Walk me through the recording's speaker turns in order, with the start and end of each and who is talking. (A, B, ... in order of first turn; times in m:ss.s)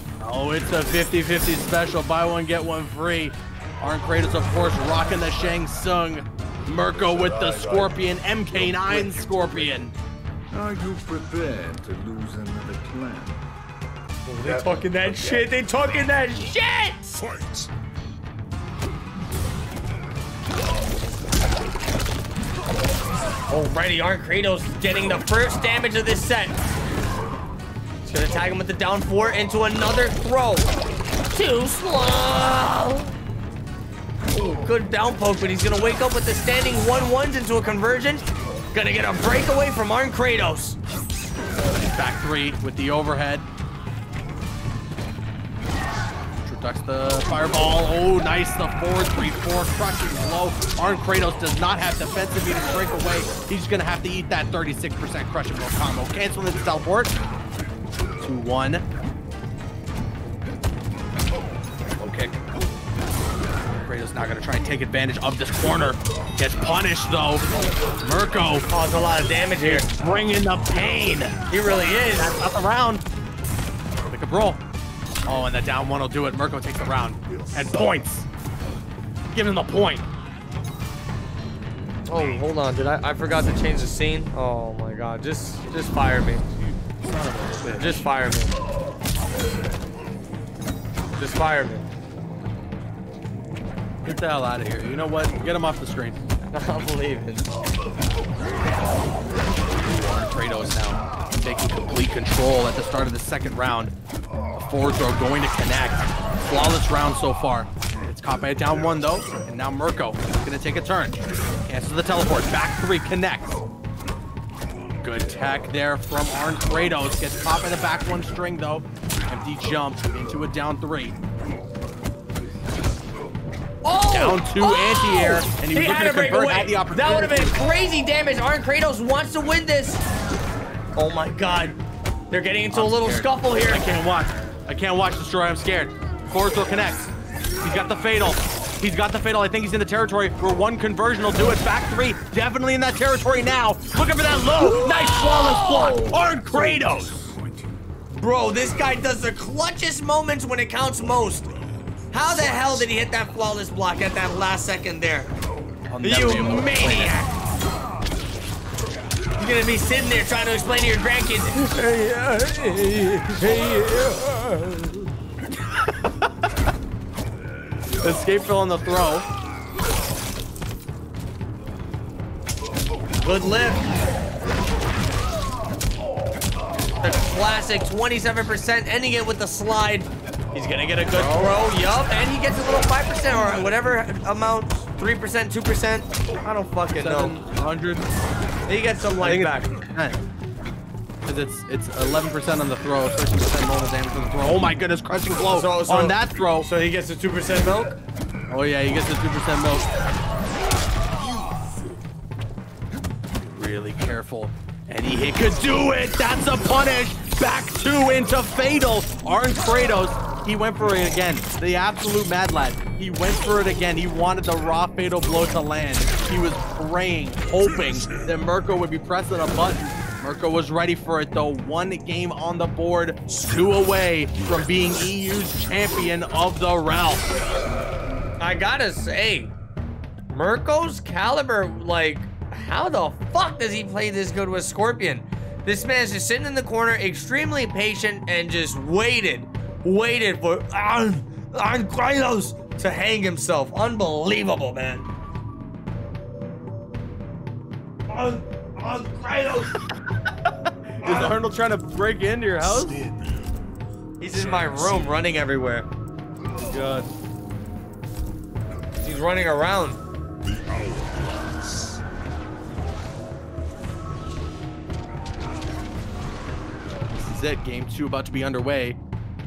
0:00.2-0:09.9 A
0:08.7-0:09.4 B
0:10.5-0:13.4 B
0:14.3-0:17.4 C
0:23.5-0:26.6 C
0:28.0-0:30.7 C
0:31.3-0:33.2 C
0:34.3-0:40.8 C
0:41.8-0:43.4 A
0:46.4-0:57.1 A
0:58.2-0:58.8 A
1:02.0-1:02.4 A
1:03.8-1:08.7 A
1:08.7-1:09.9 C
1:09.6-1:11.4 A
1:11.5-1:12.4 C
1:12.0-1:13.0 A
1:14.1-1:14.6 A
1:15.2-1:18.2 A
1:19.3-1:20.1 A
1:22.1-1:26.5 C
1:26.8-1:28.0 A
1:27.8-1:28.6 C
1:31.2-1:31.9 C
1:34.0-1:36.2 A
1:36.5-1:37.5 C
1:39.7-1:43.9 A
1:44.5-1:53.6 A
1:55.0-2:01.2 A
2:03.8-2:10.0 C
2:04.1-2:07.6 A
2:11.0-2:11.8 C
2:12.3-2:13.8 C
2:12.7-2:27.3 A
2:24.9-2:26.2 C
2:28.1-2:31.6 C
2:32.1-2:35.3 C
2:35.9-2:37.2 A
2:36.0-2:37.3 C
2:39.4-2:45.1 C
2:48.0-2:49.2 A
2:53.2-2:53.8 C
2:57.0-3:07.4 C
3:01.1-3:01.5 A
3:07.0-3:08.1 A
3:08.7-3:09.8 C
3:09.2-3:10.2 A
3:11.2-3:16.7 A
3:15.5-3:18.0 C
3:18.5-3:19.9 A
3:23.5-3:47.3 A
3:48.4-3:49.5 C
3:50.3-4:05.1 C
4:08.1-4:09.8 C
4:11.0-4:11.3 C
4:11.0-4:13.1 A
4:14.2-4:15.9 C
4:16.6-4:17.1 A
4:19.0-4:20.0 C
4:27.1-4:29.0 A